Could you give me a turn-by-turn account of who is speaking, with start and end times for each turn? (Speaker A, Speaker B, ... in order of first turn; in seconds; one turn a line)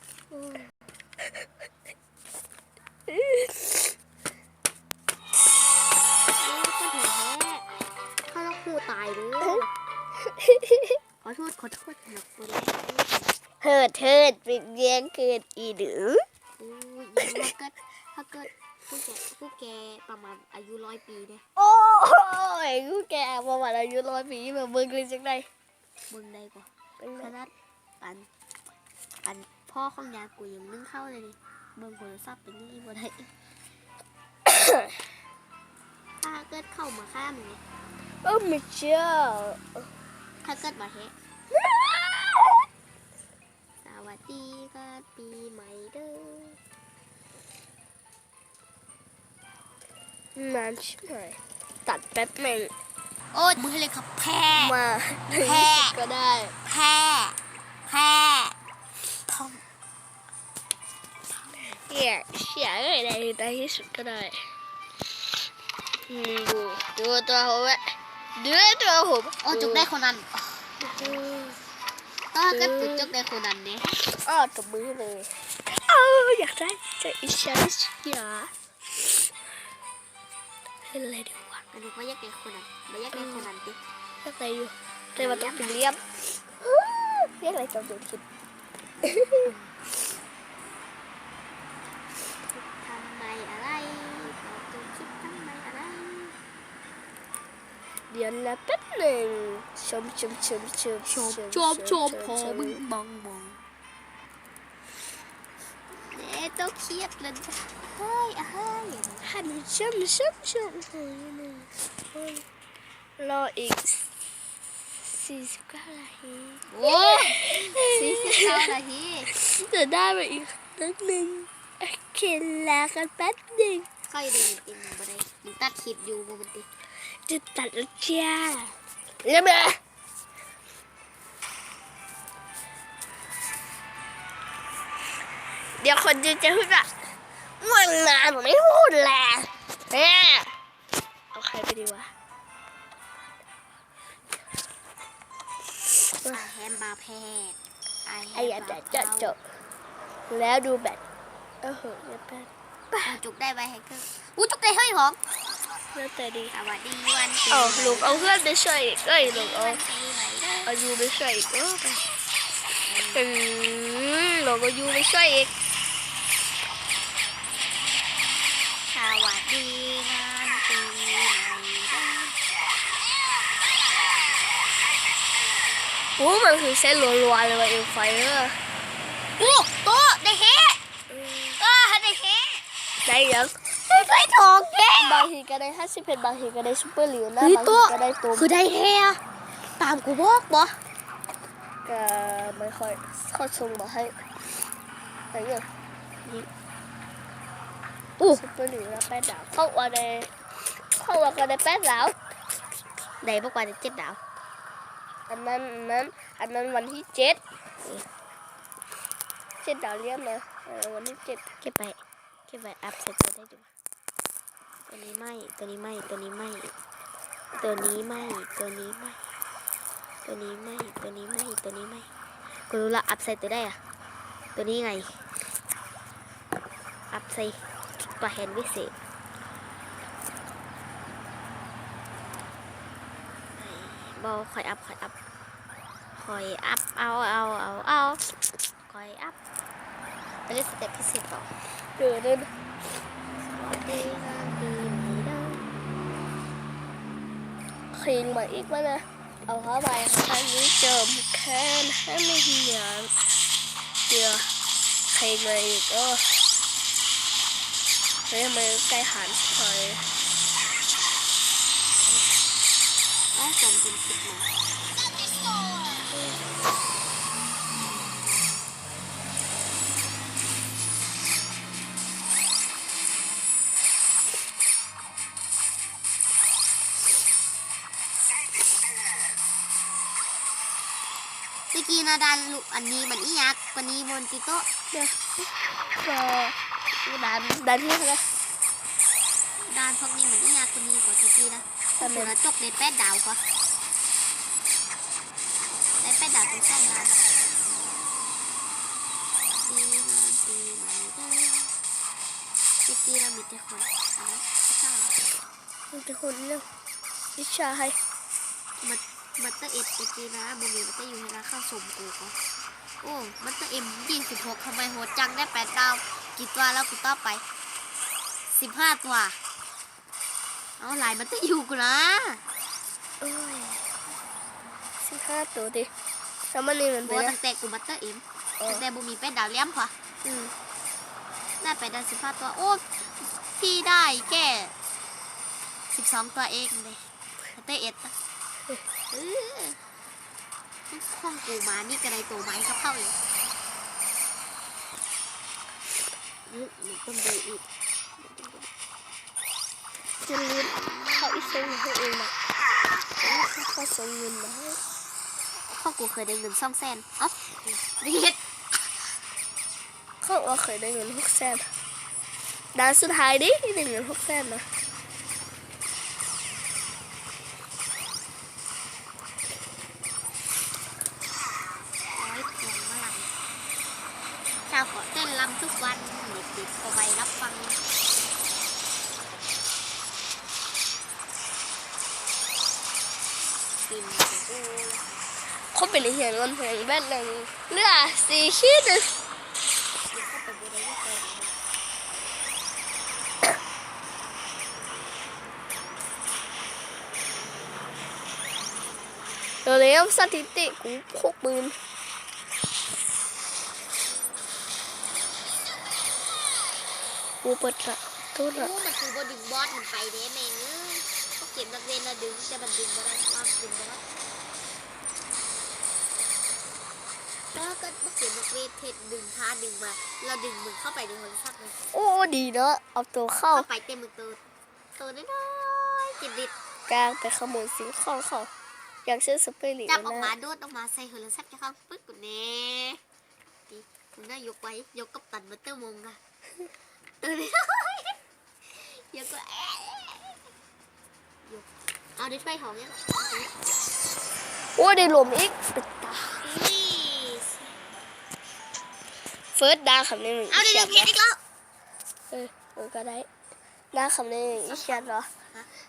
Speaker A: 0.3-0.6
Speaker B: 3.1-3.9
Speaker A: 6.4-7.6
Speaker A: 8.3-9.7
Speaker B: 10.4-10.9
Speaker A: 11.2-13.2
Speaker B: 13.6-16.2
Speaker A: 16.6-21.4
Speaker B: 17.2-17.5
Speaker B: 21.6-25.5
Speaker A: 26.1-28.3
Speaker B: 27.0-27.3
Speaker A: 29.2-33.3
Speaker B: 34.5-34.9
Speaker A: 36.2-37.6
Speaker B: 38.2-39.9
Speaker A: 40.4-41.1
Speaker B: 41.5-42.6
Speaker A: 43.8-46.6
Speaker B: 50.4-52.7
Speaker A: 53.3-54.8
Speaker B: 54.6-56.5
Speaker A: 55.3-56.0
Speaker A: 56.6-58.5
Speaker A: 59.3-59.6
Speaker A: 61.5-61.8
Speaker B: 61.8-64.5
Speaker B: 66.1-69.9
Speaker A: 69.4-71.2
Speaker B: 70.8-71.6
Speaker A: 72.3-73.9
Speaker B: 72.5-73.1
Speaker B: 74.1-79.1
Speaker B: 80.8-81.6
Speaker A: 81.7-83.8
Speaker B: 83.1-83.5
Speaker B: 84.2-88.2
Speaker A: 85.2-85.8
Speaker B: 89.0-89.5
Speaker A: 89.3-89.7
Speaker A: 92.5-96.4
Speaker B: 98.1-102.8
Speaker A: 101.1-103.6
Speaker A: 105.9-109.3
Speaker B: 109.2-112.4
Speaker B: 113.2-114.1
Speaker B: 115.0-118.7
Speaker A: 116.7-119.3
Speaker B: 119.3-123.9
Speaker A: 124.1-126.7
Speaker B: 127.2-129.8
Speaker B: 135.8-136.9
Speaker B: 137.6-140.5
Speaker B: 141.3-142.1
Speaker A: 146.3-149.3
Speaker B: 148.3-149.4
Speaker B: 150.3-151.0
Speaker B: 151.6-153.2
Speaker A: 153.0-155.2
Speaker B: 155.9-156.5
Speaker A: 156.5-158.3
Speaker B: 157.5-159.8
Speaker A: 159.2-160.8
Speaker B: 160.7-162.0
Speaker A: 162.8-163.2
Speaker B: 163.1-165.5
Speaker A: 168.9-172.4
Speaker B: 176.2-178.6
Speaker A: 179.4-180.8
Speaker B: 181.1-181.6
Speaker A: 181.6-182.6
Speaker B: 183.0-183.6
Speaker A: 183.9-185.3
Speaker B: 185.0-188.5
Speaker A: 187.4-190.8
Speaker B: 191.8-194.2
Speaker B: 195.3-195.6
Speaker B: 198.3-200.3
Speaker B: 200.9-202.1
Speaker A: 203.2-204.2
Speaker B: 205.3-207.4
Speaker B: 209.6-211.5
Speaker A: 211.6-213.7
Speaker A: 214.9-216.7
Speaker A: 217.6-219.2
Speaker A: 220.2-222.1
Speaker A: 222.7-223.8
Speaker A: 224.6-225.2
Speaker A: 227.1-228.9
Speaker A: 233.5-235.1
Speaker A: 236.2-239.4
Speaker A: 240.4-241.5
Speaker B: 242.0-242.5
Speaker A: 243.4-245.6
Speaker B: 247.9-253.1
Speaker B: 254.1-254.5
Speaker B: 255.1-256.3
Speaker B: 258.3-260.0
Speaker A: 263.3-264.5
Speaker A: 281.7-284.7
Speaker B: 284.9-288.3
Speaker A: 289.6-293.4
Speaker B: 292.0-292.3
Speaker A: 296.0-297.2
Speaker A: 299.4-301.7
Speaker A: 302.8-305.2
Speaker B: 305.9-306.7
Speaker B: 307.4-308.0
Speaker A: 308.8-312.3
Speaker A: 313.0-317.4
Speaker A: 318.5-319.4
Speaker A: 320.8-322.4
Speaker B: 323.2-323.8
Speaker B: 325.0-325.9
Speaker B: 326.5-327.4
Speaker A: 327.0-329.9
Speaker B: 330.2-330.5
Speaker A: 331.6-334.7
Speaker A: 335.9-337.0
Speaker A: 337.5-338.1
Speaker A: 339.1-339.8
Speaker A: 340.9-343.2
Speaker A: 346.5-347.6
Speaker A: 348.2-348.7
Speaker B: 350.2-352.3
Speaker A: 350.4-351.8
Speaker B: 353.2-354.8
Speaker A: 355.6-358.4
Speaker B: 360.2-361.7
Speaker B: 362.7-364.6
Speaker A: 372.1-373.3
Speaker A: 374.7-377.8
Speaker A: 383.8-385.1
Speaker B: 385.7-389.1
Speaker A: 390.1-391.6
Speaker B: 399.6-401.8
Speaker B: 407.4-408.7
Speaker A: 408.5-414.0
Speaker A: 417.5-421.8
Speaker B: 421.9-423.7
Speaker A: 423.5-424.4
Speaker A: 424.9-426.5
Speaker B: 426.9-428.5
Speaker B: 429.1-430.3
Speaker A: 429.9-433.0
Speaker A: 433.7-436.2
Speaker A: 437.2-440.4
Speaker A: 441.4-443.6
Speaker B: 444.8-446.5
Speaker A: 446.4-447.7
Speaker B: 449.5-451.1
Speaker A: 450.5-451.4
Speaker B: 452.3-453.3
Speaker B: 453.9-455.3
Speaker A: 454.4-455.7